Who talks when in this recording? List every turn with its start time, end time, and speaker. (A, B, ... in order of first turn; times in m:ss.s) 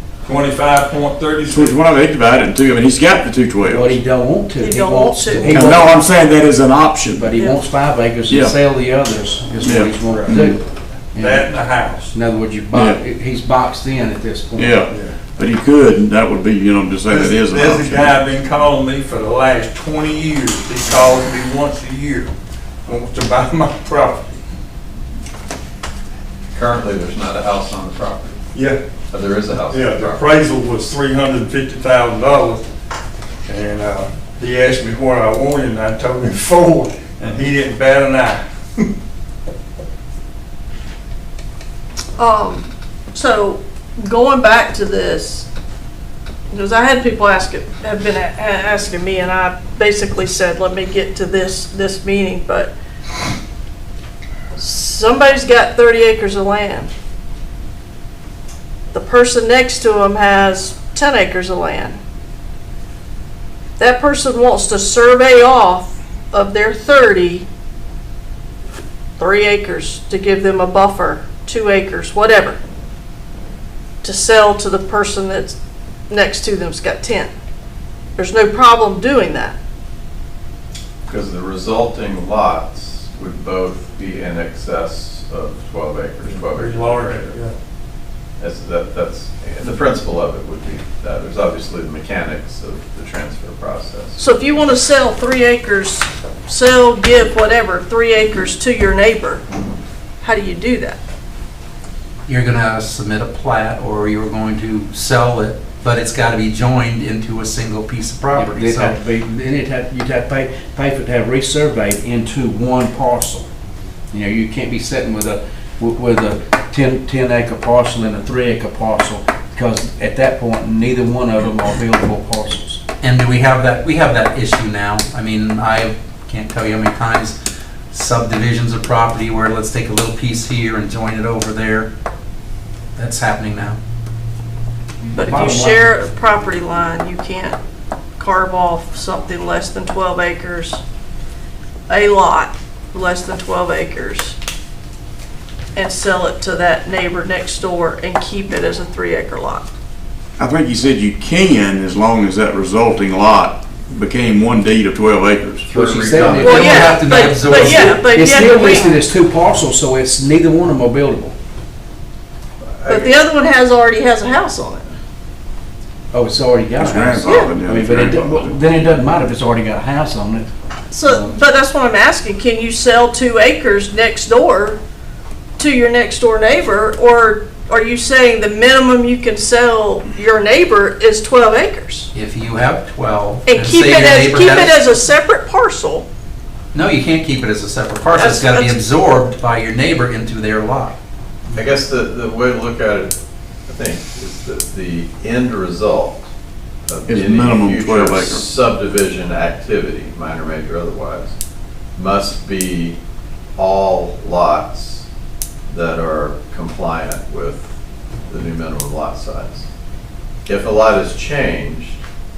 0:00.2-0:01.7 A
0:01.5-0:04.0 B
0:03.6-0:05.9 C
0:04.6-0:05.8 D
0:05.4-0:07.3 B
0:07.2-0:10.6 C
0:08.3-0:08.6 B
0:09.6-0:10.6 B
0:10.1-0:10.3 A
0:11.1-0:11.5 C
0:11.2-0:12.1 A
0:12.1-0:14.8 C
0:12.7-0:13.0 B
0:14.6-0:18.1 B
0:17.1-0:22.3 A
0:22.8-0:24.4 A
0:26.5-0:28.4 E
0:28.5-0:28.8 A
0:29.1-0:30.2 E
0:29.6-0:32.6 A
0:33.4-0:38.9 A
0:42.2-0:45.5 D
0:46.5-0:52.7 D
0:54.6-0:56.9 D
0:58.9-1:02.0 D
1:03.8-1:07.4 D
1:09.2-1:12.6 D
1:14.0-1:15.6 D
1:16.1-1:17.3 D
1:18.2-1:19.6 D
1:21.1-1:27.4 E
1:26.2-1:27.5 A
1:28.4-1:34.2 E
1:34.2-1:39.4 D
1:40.2-1:41.0 D
1:42.2-1:49.0 F
1:48.3-1:53.5 C
1:54.1-2:02.8 C
2:03.0-2:07.4 F
2:07.9-2:11.9 F
2:12.9-2:13.8 F
2:15.2-2:15.9 C
2:15.2-2:17.6 D
2:18.2-2:20.8 D
2:21.9-2:24.4 D
2:25.7-2:29.6 D
2:30.4-2:35.7 B
2:35.7-2:38.1 F
2:35.7-2:36.9 C
2:36.4-2:39.0 D
2:37.5-2:41.3 C
2:42.8-2:44.9 D
2:46.1-2:50.5 C
2:46.8-2:48.6 B
2:47.2-2:47.5 D
2:50.9-2:54.8 D
2:51.1-2:51.4 C
2:55.6-3:02.1 D
3:02.1-3:04.9 F
3:03.4-3:06.0 D
3:06.7-3:10.9 F
3:08.1-3:08.7 D
3:11.5-3:13.1 E
3:13.7-3:16.2 E
3:16.8-3:21.3 E
3:17.1-3:18.4 B
3:22.0-3:23.0 E
3:23.6-3:25.0 E
3:25.7-3:27.7 E
3:28.3-3:29.6 E
3:30.4-3:32.0 E